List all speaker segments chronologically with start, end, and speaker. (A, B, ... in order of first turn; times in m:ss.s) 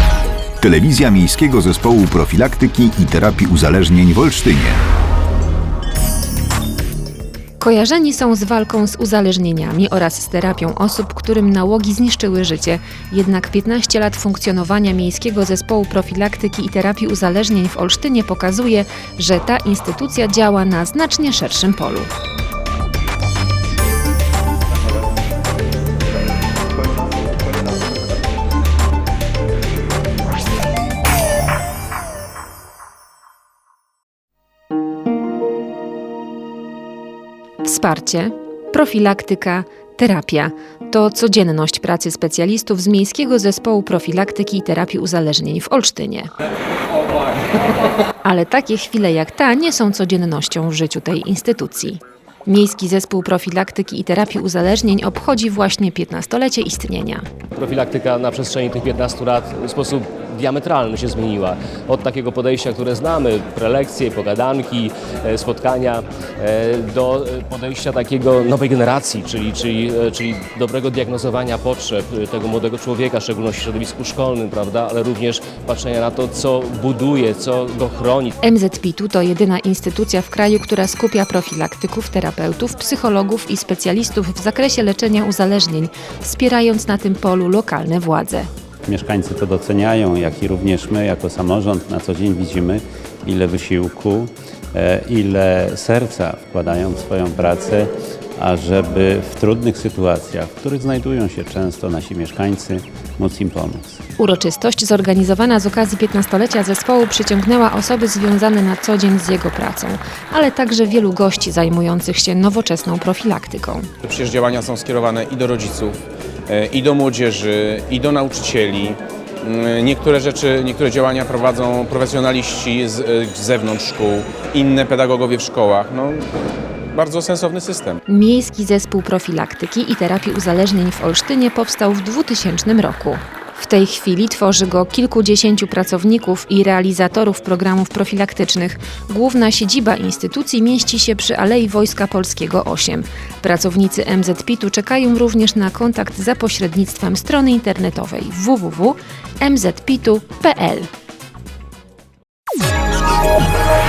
0:00.6-0:04.8 A
0:07.6-0:22.1 B
0:37.6-0:46.3 B
0:48.2-0:57.2 B
0:57.6-1:18.4 C
1:18.4-1:28.5 B
1:28.8-1:44.0 D
1:44.2-1:53.9 B
1:54.0-2:06.3 E
2:06.9-2:08.0 E
2:08.1-2:30.9 B